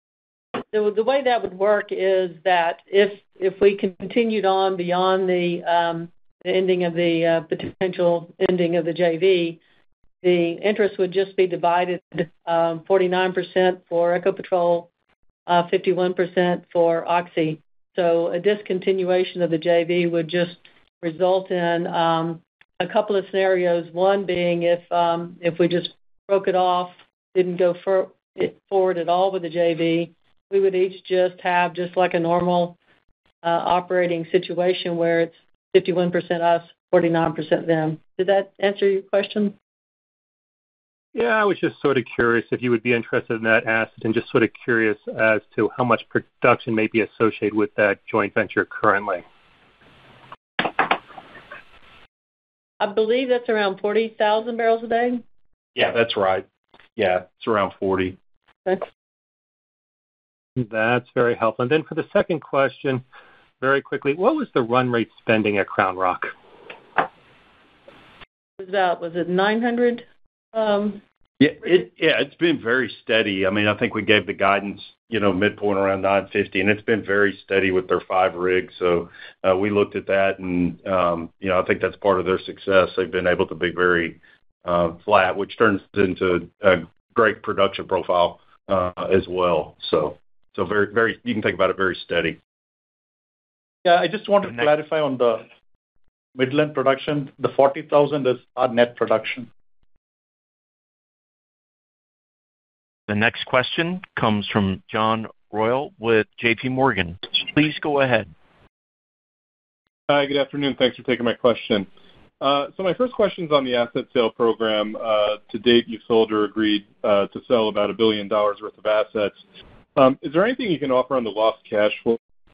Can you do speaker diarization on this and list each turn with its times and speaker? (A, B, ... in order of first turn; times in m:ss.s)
0:00.7-0:09.6 A
0:10.2-0:14.9 A
0:15.5-0:32.8 A
0:33.4-0:39.6 A
0:41.1-0:49.2 B
0:52.8-0:55.2 A
0:55.8-0:56.4 C
0:57.0-0:58.2 C
1:00.6-1:03.0 B
1:03.6-1:06.3 B
1:08.6-1:11.0 A
1:11.4-1:32.4 C
1:33.8-1:35.4 D
1:36.4-1:39.5 D
1:43.1-1:48.3 E
1:50.1-1:51.9 F
1:52.4-1:59.4 F
1:59.9-2:02.2 F